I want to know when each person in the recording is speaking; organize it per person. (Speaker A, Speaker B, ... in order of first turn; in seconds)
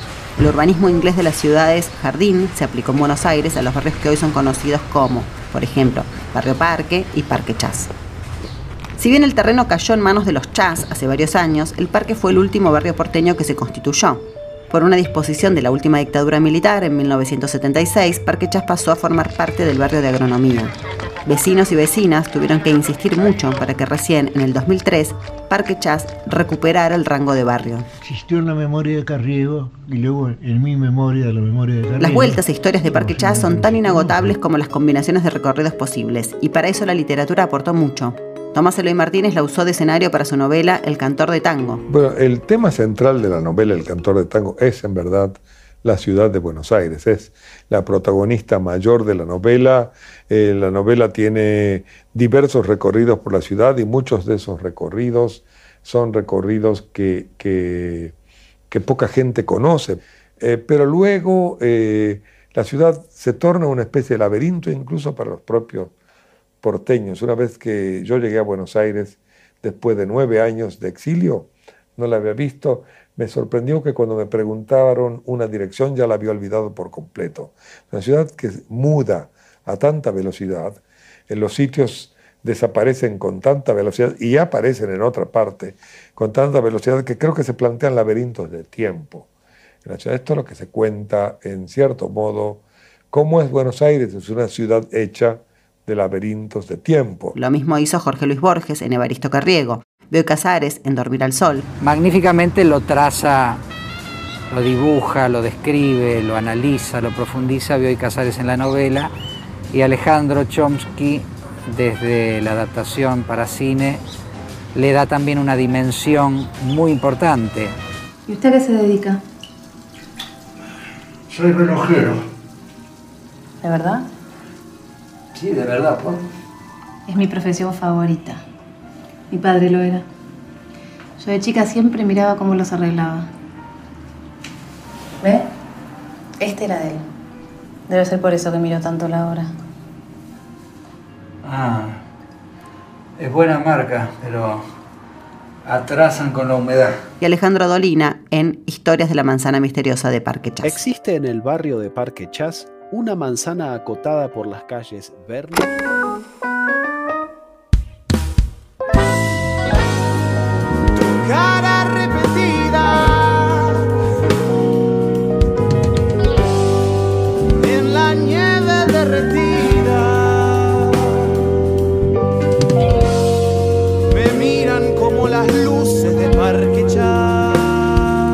Speaker A: 0.4-7.9, 9.0-20.7, 21.2-27.9, 32.0-41.8, 97.3-101.7, 147.2-150.8
Speaker B: 28.0-34.4, 121.4-122.2
Speaker C: 41.9-58.1, 58.7-65.9, 66.6-89.3, 89.8-97.3
Speaker D: 101.8-103.6, 104.5-109.1, 109.7-114.0, 114.7-117.7, 125.4-126.1, 141.4-142.0, 143.2-144.6, 145.6-147.0
Speaker E: 118.3-119.2, 123.6-124.0, 127.1-128.4, 129.3-130.0, 131.2-133.3, 135.2-135.5, 136.4-137.0, 137.9-139.5
Speaker F: 150.6-155.7
Speaker G: 161.3-163.7, 167.6-170.1, 174.2-177.2